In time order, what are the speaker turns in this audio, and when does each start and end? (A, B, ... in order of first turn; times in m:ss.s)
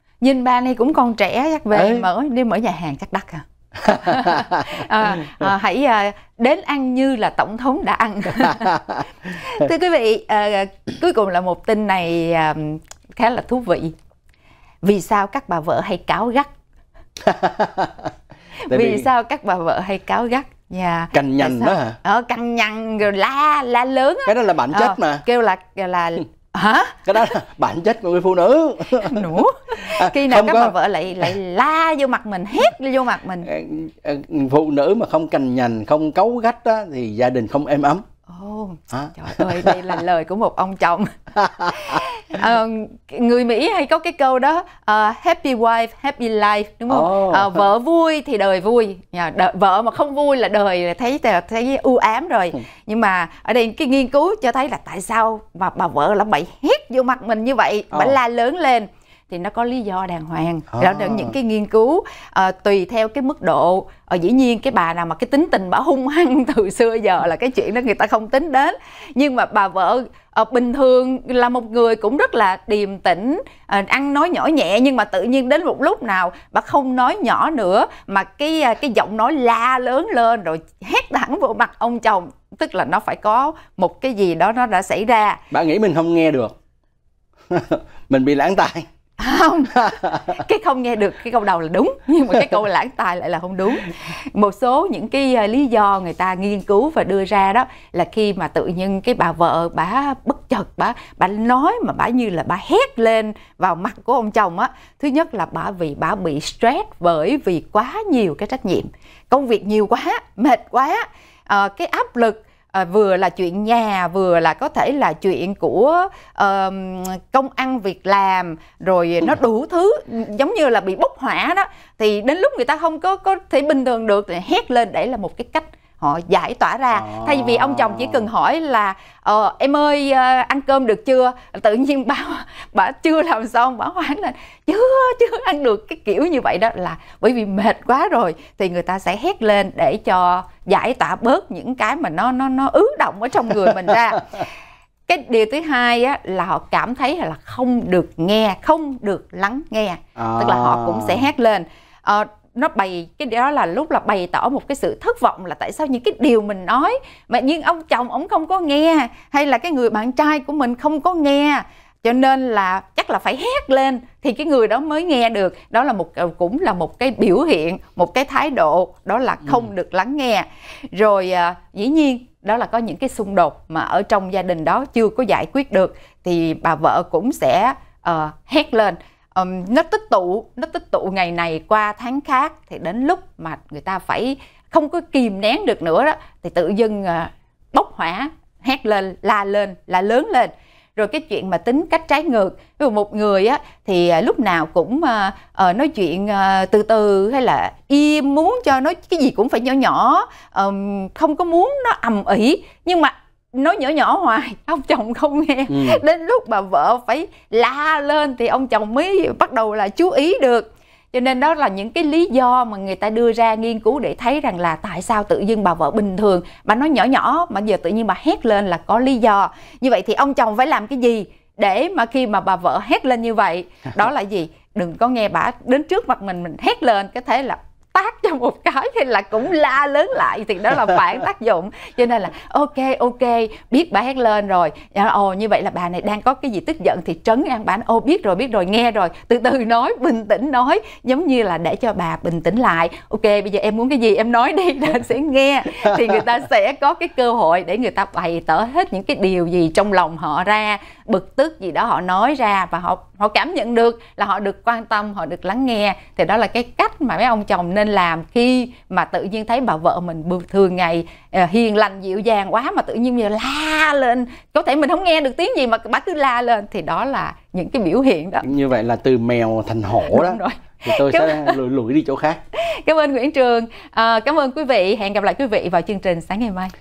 0:00.2-0:13.9 A
0:01.7-0:02.1 B
0:03.9-0:04.8 B
0:08.6-0:09.0 B
0:14.8-0:16.5 A
0:17.2-0:18.1 B
0:18.6-0:27.3 A
0:18.7-0:19.1 B
0:21.1-0:22.0 B
0:24.3-0:25.2 B
0:27.1-0:30.8 B
0:29.0-0:33.5 A
0:33.4-0:38.0 B
0:38.3-1:25.4 A
0:38.9-0:39.8 B
0:41.4-0:42.0 B
0:46.9-0:47.6 B
1:00.7-1:01.4 B
1:25.5-1:26.6 B
1:27.5-1:28.9 B
1:29.2-2:24.5 A
1:29.8-1:30.3 B
2:06.9-2:08.2 B
2:25.1-4:28.5 A
2:30.2-2:31.3 B
3:25.7-3:26.0 B
4:28.4-4:32.4 B
4:30.0-4:31.6 A
4:32.5-4:36.7 A